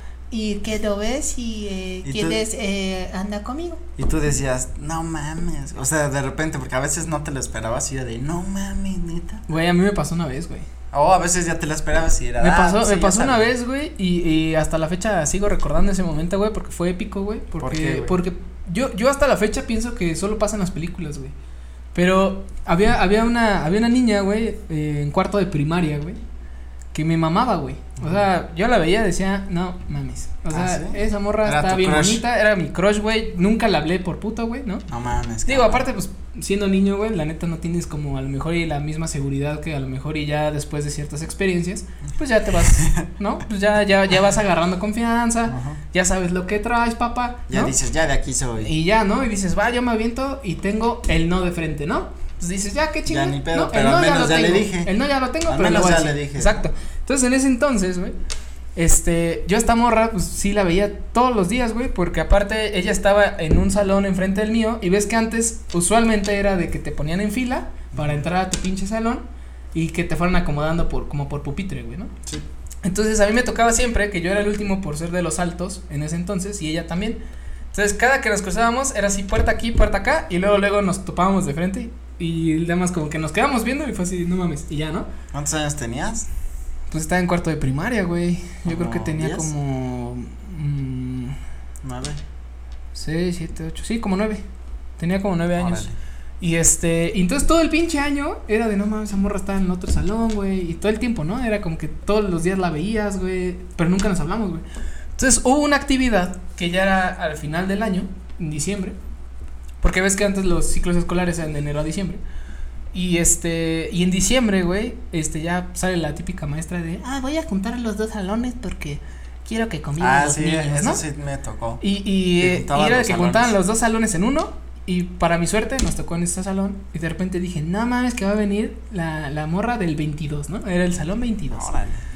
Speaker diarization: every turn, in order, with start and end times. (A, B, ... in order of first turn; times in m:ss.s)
0:00.3-0:03.6 A
0:00.6-0:03.8 B
0:02.0-0:02.4 C
0:04.0-0:09.4 C
0:09.5-0:10.7 A
0:10.9-0:13.5 C
0:12.4-0:21.3 A
0:17.6-0:18.2 C
0:21.9-0:26.2 A
0:26.9-0:34.8 A
0:30.5-0:32.2 C
0:34.9-0:35.8 C
0:35.4-0:47.7 A
0:42.6-0:43.1 C
0:45.5-0:45.8 C
0:47.5-0:48.7 C
0:48.6-0:58.1 A
0:53.0-0:54.9 C
0:55.4-0:56.6 C
0:58.8-1:09.2 A
1:07.9-1:08.2 C
1:09.7-1:12.1 A
1:12.8-1:17.2 A
1:17.7-1:25.1 A
1:25.3-1:26.3 C
1:26.9-1:31.4 A
1:28.6-1:29.5 C
1:31.8-1:32.2 C
1:32.9-1:34.4 A
1:35.0-1:35.9 A
1:35.6-1:35.9 C
1:36.4-1:44.6 A
1:45.2-1:49.0 A
1:49.8-1:52.2 A
1:52.9-2:01.0 A
2:00.0-2:01.8 C
2:01.8-2:11.7 A
2:02.4-2:03.5 C
2:11.5-2:12.0 C